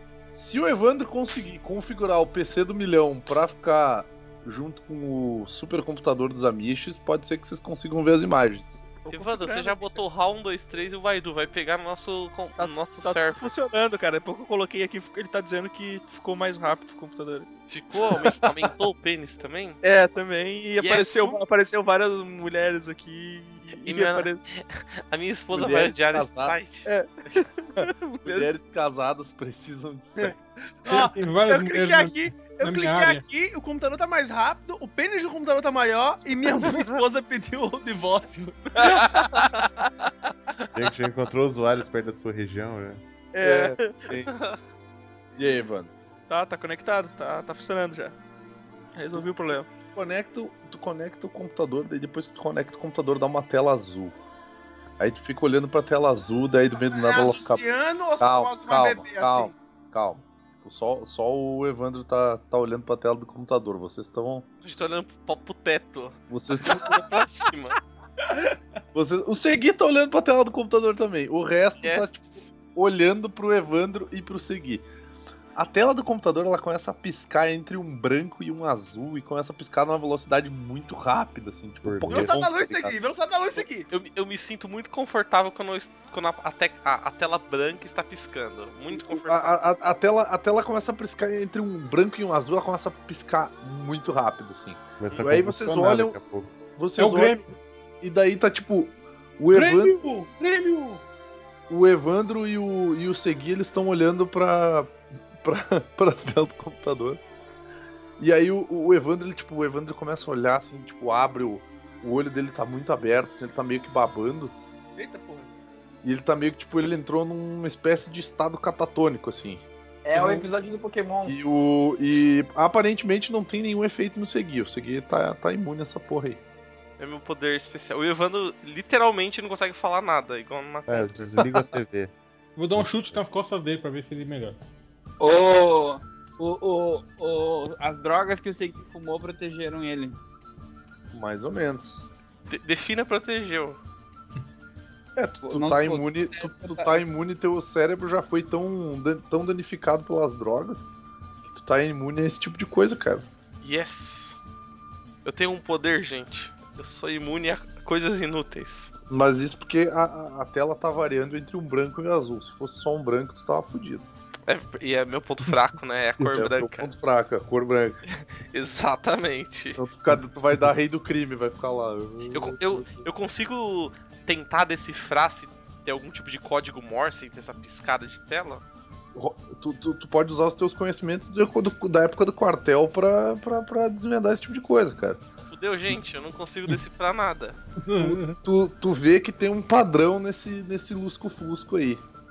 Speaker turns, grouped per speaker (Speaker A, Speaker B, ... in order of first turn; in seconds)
Speaker A: 0.3-8.8, 18.1-18.4, 25.5-26.6, 28.2-30.4, 43.4-44.3, 45.4-45.9, 49.9-54.2, 55.0-57.6, 58.2-64.5, 66.3-67.0, 68.9-74.9, 75.5-82.9, 89.0-96.2, 96.8-97.4, 98.0-100.0, 101.7-107.2, 108.2-114.5, 116.0-120.5, 121.3-126.4, 141.1-142.0, 145.2-150.9, 151.5-153.3, 159.1-164.1, 166.2-168.0, 169.8-173.1, 179.2-185.2, 188.0-192.0
Speaker B: 9.0-10.0, 12.6-17.5, 19.8-24.4, 26.9-28.5, 43.3-44.1, 46.3-48.2, 49.0-49.7
Speaker C: 9.1-13.5, 17.7-19.8, 20.8-21.5, 23.8-26.9, 44.3-44.6, 64.6-67.8, 71.8-72.5, 83.9-89.8, 127.0-131.5, 142.5-143.8, 153.6-154.4, 155.2-158.9, 164.5-166.9, 168.2-169.8, 172.3-178.6, 185.5-187.6
Speaker D: 30.2-39.6, 56.7-59.5, 82.1-83.9, 115.0-115.5
Speaker E: 30.9-33.2, 97.0-97.5, 99.5-101.0, 132.6-134.6, 187.8-188.4
Speaker F: 40.8-43.0, 81.8-82.3, 95.0-96.5, 130.9-132.1, 132.7-133.2
Speaker G: 120.0-121.4, 135.2-140.2, 145.4-147.0